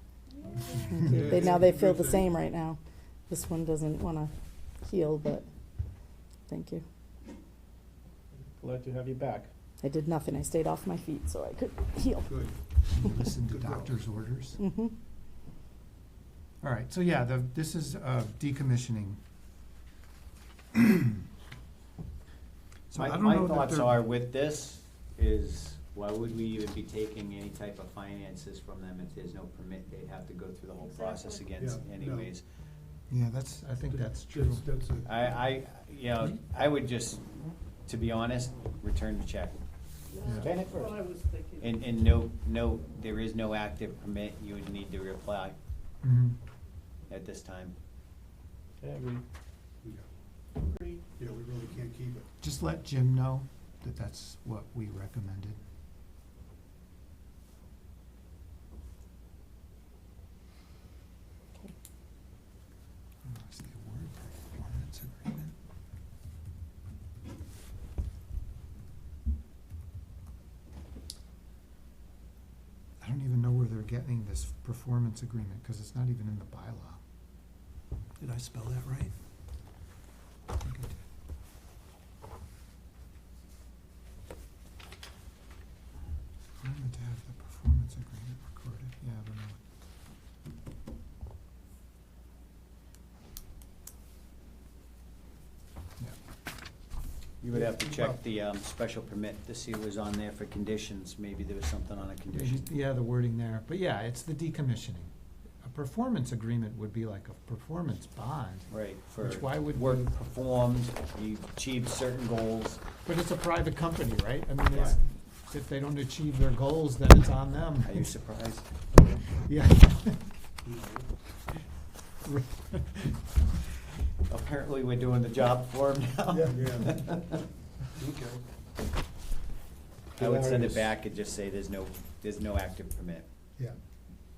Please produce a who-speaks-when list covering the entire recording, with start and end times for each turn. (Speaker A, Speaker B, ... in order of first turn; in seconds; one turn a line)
Speaker A: 0.6-1.0
Speaker B: 0.7-2.8
Speaker C: 1.1-2.2
Speaker B: 3.3-5.4
Speaker B: 6.5-6.8
Speaker D: 8.6-9.5
Speaker B: 9.8-12.4
Speaker C: 12.3-12.5
Speaker E: 12.9-14.6
Speaker C: 13.5-13.9
Speaker B: 14.6-14.9
Speaker E: 16.6-19.2
Speaker E: 20.7-21.0
Speaker E: 22.9-24.0
Speaker F: 22.9-32.4
Speaker A: 30.8-31.6
Speaker C: 31.6-32.3
Speaker E: 33.1-34.7
Speaker C: 33.9-35.1
Speaker F: 35.0-37.2
Speaker F: 37.9-39.6
Speaker A: 40.1-41.8
Speaker D: 40.3-41.0
Speaker F: 41.6-45.5
Speaker E: 46.0-46.3
Speaker F: 47.1-47.7
Speaker D: 48.8-49.2
Speaker A: 50.5-51.1
Speaker C: 51.2-52.2
Speaker E: 52.4-55.6
Speaker E: 63.2-65.5
Speaker E: 73.0-77.0
Speaker E: 78.2-79.1
Speaker E: 80.5-81.0
Speaker E: 86.6-89.6
Speaker F: 97.4-102.7
Speaker E: 97.5-98.2
Speaker E: 102.3-105.1
Speaker E: 105.6-110.1
Speaker F: 108.7-112.8
Speaker E: 113.0-118.1
Speaker F: 114.7-115.0
Speaker F: 117.8-118.7
Speaker E: 119.4-120.2
Speaker C: 120.7-121.0
Speaker E: 122.2-123.2
Speaker F: 124.3-127.4
Speaker C: 126.5-126.9
Speaker C: 128.0-128.4
Speaker D: 130.2-130.9
Speaker F: 130.2-133.2